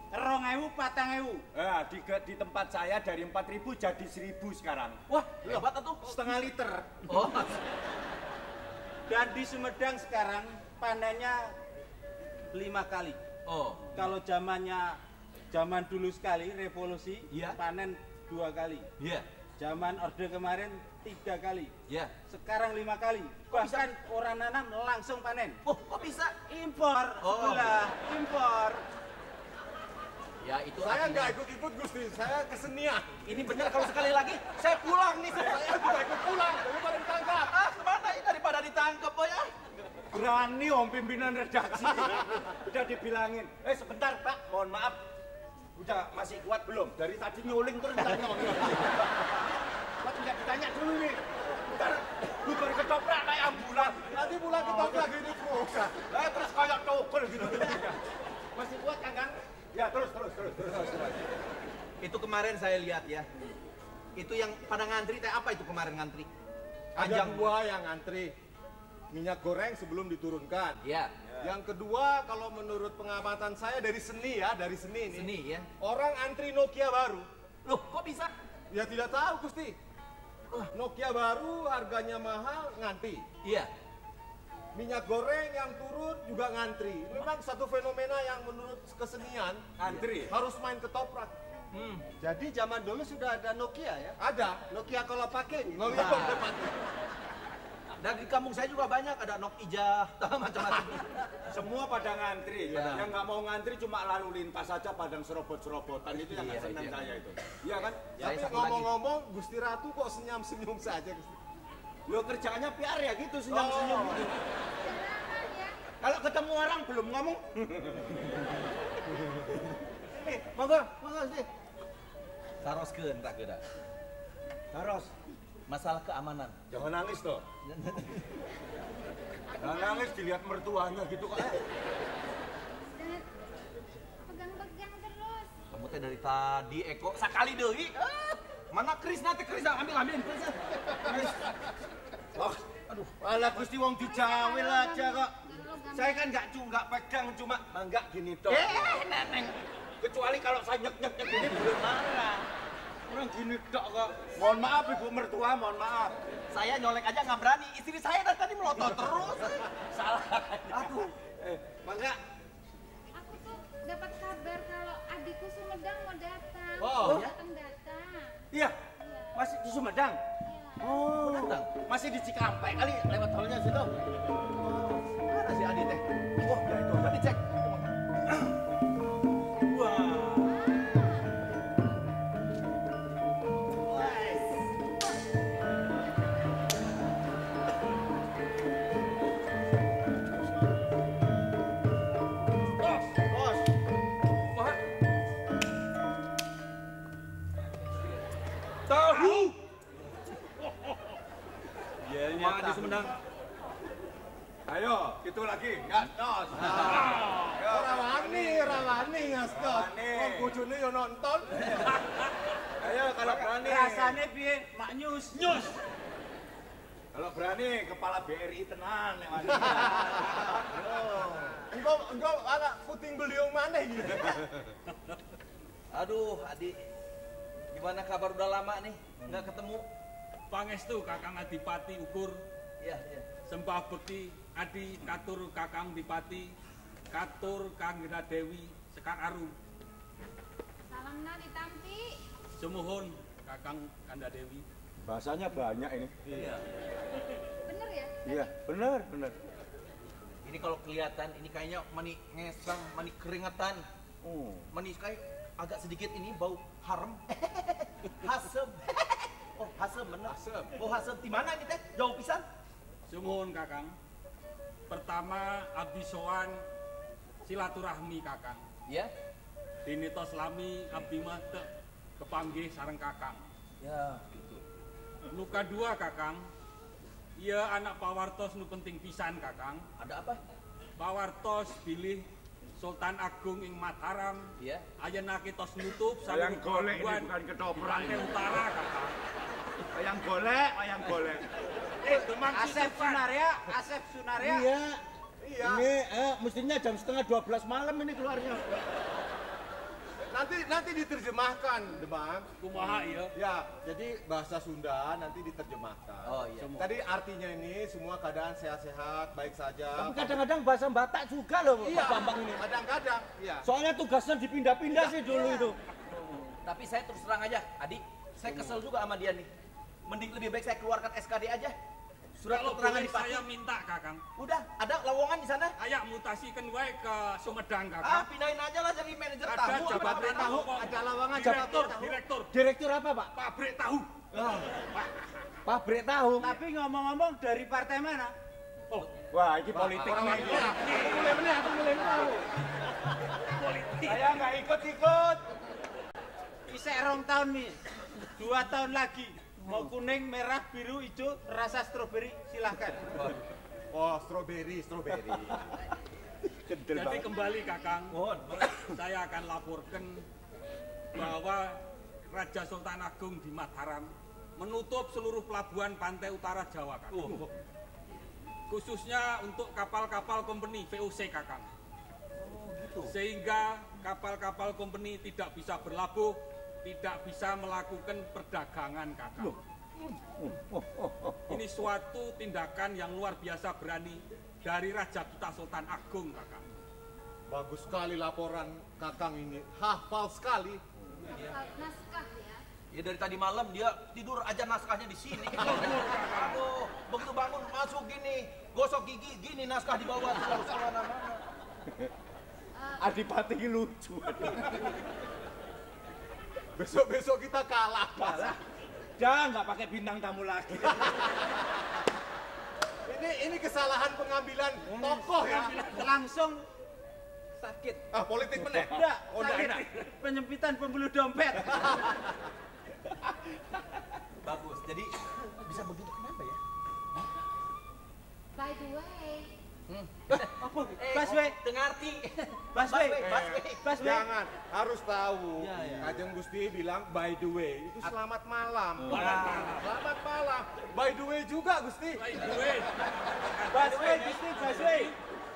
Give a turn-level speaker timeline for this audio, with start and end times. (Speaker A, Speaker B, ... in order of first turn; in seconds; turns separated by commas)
Speaker A: 0.1-1.4, Speaker B: 1.5-5.0, Speaker C: 5.1-6.2, Speaker C: 7.0-7.6, Speaker A: 9.1-11.5, Speaker A: 12.5-13.2, Speaker C: 13.5-13.9, Speaker A: 13.9-15.0, Speaker A: 15.5-18.9, Speaker C: 17.3-17.6, Speaker C: 19.0-19.3, Speaker A: 19.6-21.7, Speaker A: 22.3-25.6, Speaker C: 23.5-23.9, Speaker C: 25.6-26.3, Speaker A: 26.5-28.8, Speaker C: 27.2-27.8, Speaker C: 30.4-31.4, Speaker D: 30.8-33.2, Speaker C: 33.3-36.1, Speaker D: 35.3-37.5, Speaker C: 37.5-39.5, Speaker B: 40.1-45.0, Speaker B: 45.8-49.4, Speaker B: 50.0-55.0, Speaker D: 54.1-56.0, Speaker B: 56.1-58.0, Speaker C: 57.4-57.8, Speaker B: 58.5-61.4, Speaker C: 62.0-63.3, Speaker C: 64.2-66.3, Speaker D: 67.0-68.3, Speaker C: 67.0-67.5, Speaker D: 69.1-70.8, Speaker C: 70.8-71.1, Speaker B: 71.3-71.5, Speaker D: 71.4-75.3, Speaker C: 75.1-75.7, Speaker D: 75.8-77.3, Speaker C: 77.7-78.3, Speaker D: 78.7-79.8, Speaker D: 80.7-83.2, Speaker C: 83.4-83.7, Speaker D: 84.8-89.6, Speaker B: 89.8-90.3, Speaker C: 89.8-90.3, Speaker D: 90.3-91.3, Speaker C: 91.7-92.0, Speaker E: 92.2-94.2, Speaker D: 94.2-94.6, Speaker E: 94.7-96.4, Speaker D: 95.8-96.8, Speaker C: 95.9-96.5, Speaker C: 98.0-101.2, Speaker B: 101.5-108.2, Speaker C: 102.6-103.1, Speaker C: 106.2-107.0, Speaker D: 108.2-111.4, Speaker C: 108.2-108.9, Speaker B: 112.1-114.2, Speaker C: 113.5-114.3, Speaker D: 113.5-114.2, Speaker F: 114.8-115.8, Speaker B: 116.0-118.2, Speaker C: 116.2-117.3, Speaker C: 120.3-121.4, Speaker B: 120.4-121.4, Speaker C: 122.6-123.6, Speaker B: 124.7-125.1, Speaker C: 125.7-126.6, Speaker B: 126.7-127.5, Speaker C: 127.7-128.2, Speaker F: 129.5-130.2, Speaker B: 129.6-131.6, Speaker F: 132.9-133.2, Speaker F: 134.3-135.5, Speaker C: 135.7-141.4, Speaker B: 141.1-141.3, Speaker B: 142.3-142.6, Speaker C: 142.4-143.2, Speaker B: 143.2-145.3, Speaker F: 143.8-146.4, Speaker B: 145.9-149.0, Speaker C: 148.5-149.6, Speaker B: 150.0-152.0, Speaker C: 151.3-152.5, Speaker B: 153.1-156.2, Speaker F: 154.4-155.0, Speaker C: 156.5-159.6, Speaker B: 159.8-162.2, Speaker C: 160.7-161.1, Speaker F: 163.2-168.4, Speaker D: 166.8-167.2, Speaker C: 167.0-167.3, Speaker B: 168.5-168.8, Speaker F: 169.0-169.4, Speaker B: 169.3-170.2, Speaker F: 170.4-171.1, Speaker C: 170.8-171.8, Speaker B: 170.9-173.9, Speaker C: 174.6-176.0, Speaker B: 176.4-177.4, Speaker C: 177.1-178.5, Speaker C: 179.7-180.5, Speaker F: 180.4-181.4, Speaker B: 198.9-199.5, Speaker C: 198.9-199.5, Speaker B: 202.1-203.2, Speaker C: 202.3-203.1, Speaker B: 204.7-210.6, Speaker C: 206.5-207.2, Speaker D: 206.7-207.0, Speaker D: 207.6-211.7, Speaker B: 212.8-214.2, Speaker A: 213.6-215.7, Speaker B: 217.1-220.6, Speaker D: 220.1-224.6, Speaker C: 225.9-226.8, Speaker C: 227.7-229.8, Speaker G: 230.5-232.4, Speaker C: 232.8-233.3, Speaker G: 233.5-236.5, Speaker G: 237.1-239.5, Speaker F: 240.9-242.2, Speaker G: 242.6-244.7, Speaker B: 245.0-246.5, Speaker C: 246.3-246.6, Speaker F: 247.7-248.5, Speaker B: 248.2-249.4, Speaker C: 250.4-253.8, Speaker B: 254.2-254.7, Speaker C: 254.7-262.4, Speaker D: 260.3-260.8, Speaker G: 263.1-263.9, Speaker G: 264.9-266.6, Speaker G: 267.4-268.6, Speaker G: 269.9-271.7, Speaker G: 272.2-273.4, Speaker C: 273.8-274.6, Speaker G: 275.3-276.4, Speaker G: 277.4-279.8, Speaker C: 280.0-280.4, Speaker G: 281.0-282.2, Speaker G: 282.8-284.5, Speaker C: 284.6-284.9, Speaker G: 285.0-289.1, Speaker B: 286.3-288.4, Speaker B: 289.9-291.5, Speaker G: 292.0-293.2, Speaker B: 292.0-292.3, Speaker A: 292.5-294.7, Speaker B: 294.4-295.0, Speaker D: 295.4-295.9, Speaker B: 295.6-298.9, Speaker D: 300.3-302.5, Speaker G: 302.6-303.3, Speaker D: 303.4-310.4, Speaker C: 306.3-306.7, Speaker G: 306.6-306.9, Speaker B: 309.9-312.6, Speaker D: 311.8-313.6, Speaker C: 311.8-312.3, Speaker B: 313.6-316.5, Speaker C: 314.9-315.7, Speaker C: 316.6-319.5, Speaker G: 318.5-318.8, Speaker C: 320.1-321.8, Speaker C: 322.4-323.4, Speaker G: 322.4-324.2, Speaker C: 324.4-325.8, Speaker G: 325.8-328.3, Speaker C: 328.0-330.6, Speaker G: 329.4-332.5, Speaker E: 330.0-332.2, Speaker D: 330.0-330.7, Speaker B: 332.5-333.3, Speaker G: 333.3-334.2, Speaker B: 334.3-334.7, Speaker G: 334.8-335.1, Speaker B: 335.6-336.5, Speaker A: 336.4-338.3, Speaker B: 339.3-342.4, Speaker D: 339.7-342.5, Speaker G: 340.5-341.4, Speaker G: 343.4-344.3, Speaker B: 344.0-345.4, Speaker A: 346.7-347.8, Speaker A: 348.3-353.1, Speaker D: 353.9-355.6, Speaker B: 356.6-357.4, Speaker G: 356.9-360.2, Speaker F: 357.4-357.9, Speaker C: 358.2-358.6, Speaker B: 358.6-358.9, Speaker G: 361.1-361.8, Speaker G: 362.3-367.4, Speaker C: 367.1-367.4, Speaker G: 368.7-371.7, Speaker C: 372.4-373.1, Speaker G: 373.0-379.6, Speaker B: 379.4-381.6, Speaker G: 381.5-386.6, Speaker D: 387.5-390.8, Speaker F: 391.3-392.6, Speaker C: 392.9-401.4, Speaker G: 395.5-396.6, Speaker F: 402.8-403.2, Speaker B: 403.0-405.0, Speaker D: 406.8-408.6, Speaker B: 408.2-408.6, Speaker B: 409.2-411.3, Speaker D: 413.1-415.8, Speaker A: 415.4-416.6, Speaker A: 417.6-418.1, Speaker D: 418.1-419.8, Speaker B: 418.6-418.9, Speaker A: 418.7-422.1, Speaker C: 424.4-426.6, Speaker F: 428.6-429.5, Speaker C: 429.9-433.9, Speaker A: 430.6-431.6, Speaker A: 432.7-433.2, Speaker D: 433.2-442.7, Speaker A: 433.8-434.3, Speaker A: 435.7-436.1, Speaker G: 439.1-439.9, Speaker G: 442.2-445.1, Speaker A: 443.7-445.1